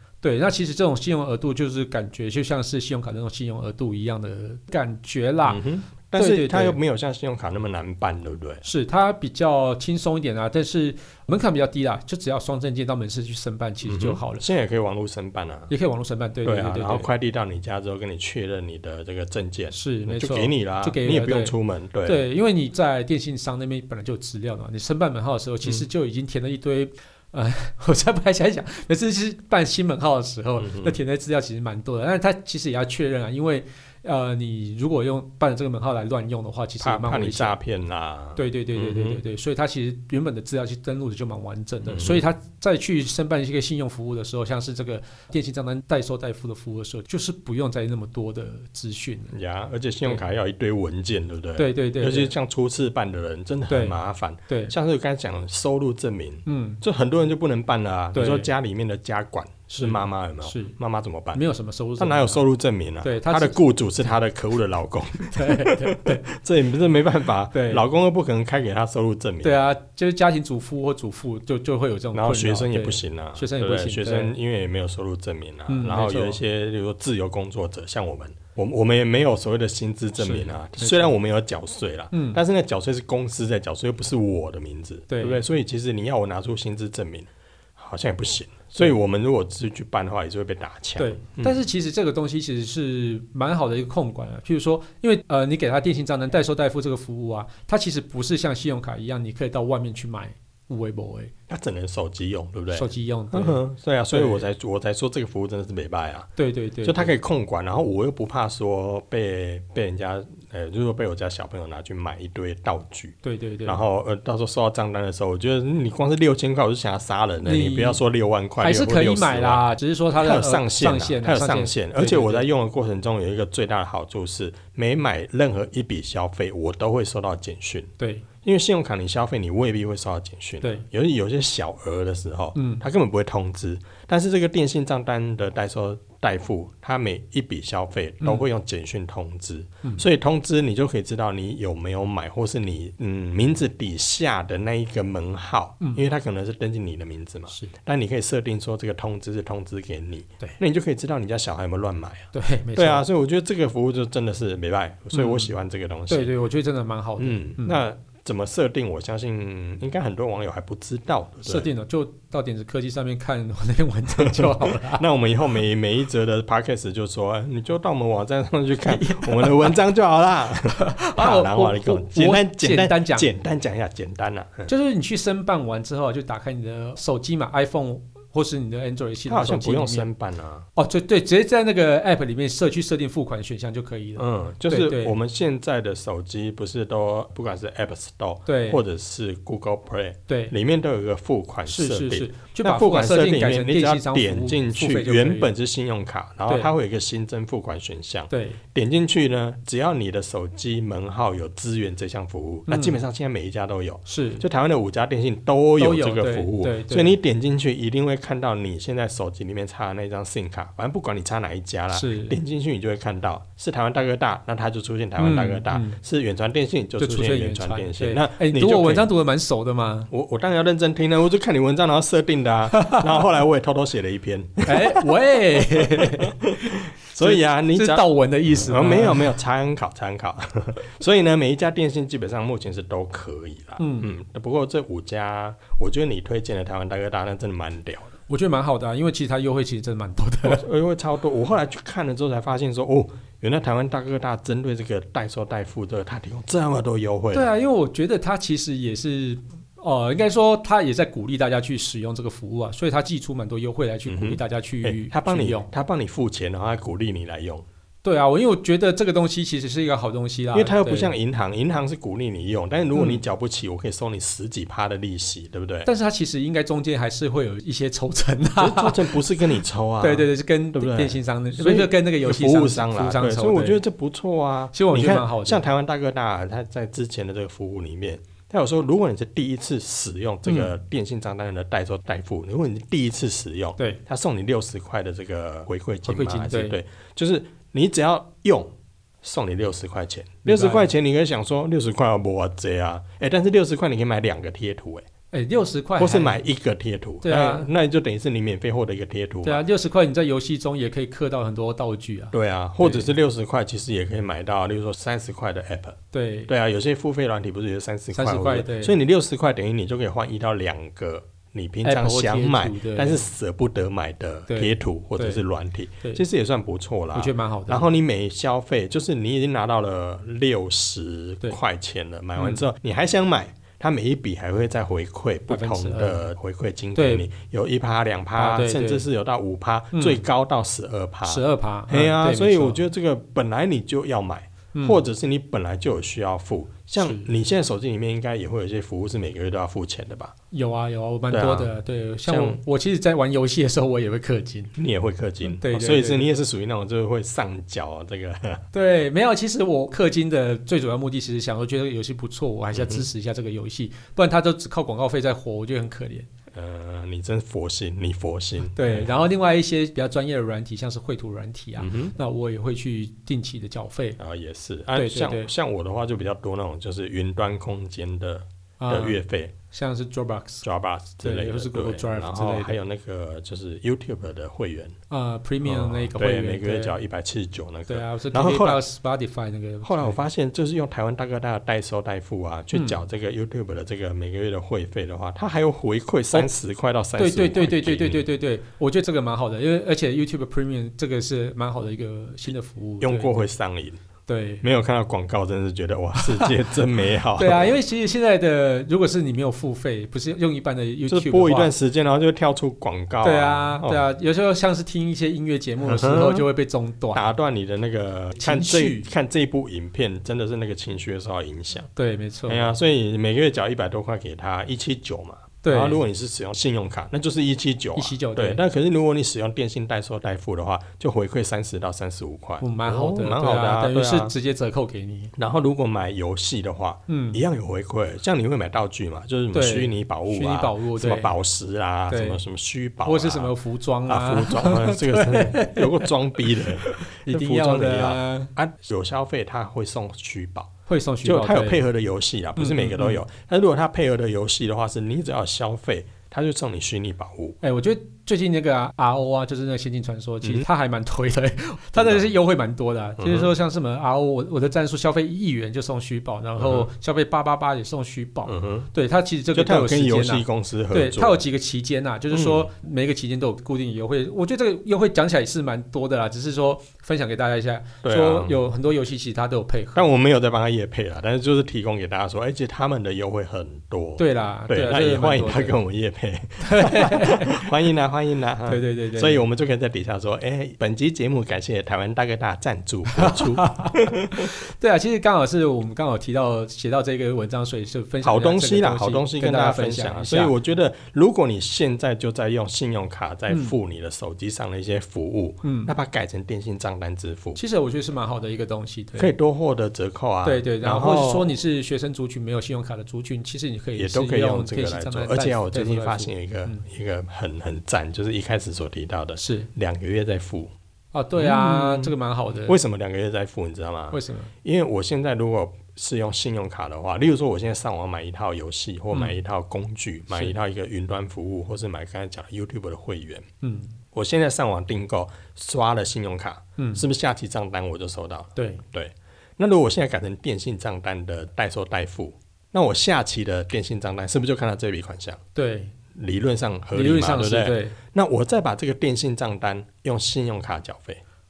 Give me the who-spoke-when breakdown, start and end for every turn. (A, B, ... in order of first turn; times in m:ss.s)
0:00.2-0:05.6 A
0:05.5-0:08.6 B
0:06.2-0:06.8 A
0:08.6-0:14.4 A
0:13.8-0:15.7 B
0:15.7-0:17.1 A
0:16.4-0:22.2 B
0:19.7-0:37.6 A
0:30.6-0:31.0 B
0:36.8-0:39.2 B
0:38.4-0:49.3 A
0:41.8-0:42.3 B
0:49.3-1:01.4 B
0:51.6-0:52.3 A
0:53.7-0:54.0 A
0:54.5-0:54.7 A
0:56.5-0:56.8 A
0:58.1-0:58.5 A
0:59.7-1:00.7 A
1:01.3-1:02.4 A
1:02.0-1:09.6 B
1:03.0-1:03.6 A
1:05.3-1:06.2 A
1:07.5-1:07.8 A
1:09.4-1:14.3 A
1:12.1-1:31.6 B
1:15.7-1:16.4 A
1:20.2-1:21.2 A
1:22.1-1:22.4 A
1:25.1-1:25.4 A
1:31.0-1:41.3 A
1:41.5-1:46.3 B
1:42.7-1:44.4 A
1:46.4-1:47.1 A
1:46.8-2:07.9 B
1:53.2-1:53.8 A
1:57.4-1:58.0 A
1:58.6-2:02.5 A
2:08.0-2:08.3 A
2:08.4-2:36.3 B
2:12.6-2:12.8 A
2:18.2-2:18.5 A
2:32.3-2:33.0 A
2:35.1-2:35.5 A
2:36.1-2:37.8 A
2:37.2-2:41.7 B
2:41.4-2:45.0 A
2:44.2-2:54.7 B
2:48.8-2:49.8 A
2:50.8-2:53.3 A
2:54.7-3:00.1 A
2:59.3-3:00.7 B
3:00.8-3:05.2 A
3:04.2-3:39.1 B
3:08.5-3:08.8 A
3:10.3-3:10.5 A
3:11.7-3:15.5 A
3:18.3-3:18.6 A
3:22.7-3:23.0 A
3:24.1-3:24.4 A
3:25.8-3:27.2 A
3:31.9-3:32.4 A
3:35.2-3:36.0 A
3:37.0-3:40.1 A
3:40.1-3:58.1 B
3:42.7-3:43.2 A
3:44.7-3:46.6 A
3:47.2-3:49.4 A
3:53.8-3:54.1 A
3:58.3-4:00.6 A
4:00.4-4:07.5 B
4:07.3-4:15.7 A
4:14.1-4:17.7 B
4:18.0-4:21.1 A
4:20.5-4:25.9 B
4:22.9-4:23.2 A
4:25.9-4:29.2 A
4:28.6-4:55.0 B
4:30.0-4:33.8 A
4:34.7-4:35.7 A
4:40.4-4:40.7 A
4:46.1-4:46.8 A
4:50.4-4:50.9 A
4:55.3-4:56.4 A
4:56.0-4:59.6 B
4:57.2-4:57.7 A
4:59.4-5:03.1 A
5:02.3-5:40.3 B
5:06.1-5:06.5 A
5:08.1-5:09.0 A
5:11.8-5:13.3 A
5:14.5-5:15.4 A
5:17.1-5:17.9 A
5:22.4-5:22.6 A
5:25.5-5:26.3 A
5:27.0-5:27.3 A
5:28.4-5:29.1 A
5:29.9-5:30.2 A
5:31.2-5:32.8 A
5:34.7-5:35.0 A
5:37.0-5:37.3 A
5:40.5-5:44.8 A
5:41.3-5:41.7 B
5:42.3-5:42.6 B
5:44.8-5:48.7 B
5:45.5-5:46.3 A
5:48.7-5:56.3 A
5:52.8-5:53.1 B
5:56.5-5:59.1 B
5:58.7-6:04.2 A
6:01.8-6:02.2 B
6:04.2-6:09.5 B
6:05.0-6:05.5 A
6:08.8-6:10.7 A
6:10.6-6:15.0 B
6:11.2-6:12.8 A
6:15.1-6:17.0 A
6:15.6-6:18.8 B
6:17.9-6:20.2 A
6:19.8-6:28.2 B
6:22.7-6:23.0 A
6:27.2-6:33.5 A
6:33.0-6:34.0 B
6:34.3-6:34.6 A
6:34.6-6:37.8 B
6:36.2-6:36.5 A
6:37.4-6:41.7 A
6:41.1-6:44.0 B
6:43.2-6:47.3 A
6:45.8-6:46.4 B
6:47.1-6:51.9 B
6:48.4-6:49.1 A
6:52.0-6:52.7 A
6:52.5-7:04.3 B
6:55.6-6:56.0 A
6:58.0-6:58.6 A
7:02.6-7:05.3 A
7:05.4-7:13.5 B
7:07.1-7:07.4 A
7:09.5-7:11.4 A
7:12.1-7:12.4 A
7:13.0-7:18.5 A
7:14.1-7:20.7 B
7:20.9-7:21.9 A
7:21.2-7:27.6 B
7:22.6-7:23.2 A
7:27.6-7:50.0 A
7:32.0-7:32.3 B
7:33.2-7:33.5 B
7:36.6-7:36.9 B
7:38.5-7:38.9 B
7:39.5-7:41.4 B
7:42.3-7:42.7 B
7:48.0-7:48.6 B
7:49.9-8:04.5 B
7:54.2-7:55.8 A
7:56.6-7:57.8 A
7:58.7-7:59.4 A
8:03.1-8:10.6 A
8:08.2-8:17.6 B
8:15.6-8:15.9 A
8:17.6-8:19.3 A
8:19.2-8:21.6 B
8:20.4-8:26.8 A
8:24.0-8:30.7 B
8:29.4-8:29.7 A
8:31.1-8:32.8 A
8:31.4-8:32.1 B
8:32.7-8:43.5 B
8:34.1-8:34.5 A
8:43.6-8:43.9 A
8:44.1-8:55.4 B
8:46.8-8:47.0 A
8:48.6-8:48.8 A
8:55.6-8:55.9 A
8:56.2-9:01.2 B
8:56.9-8:58.0 A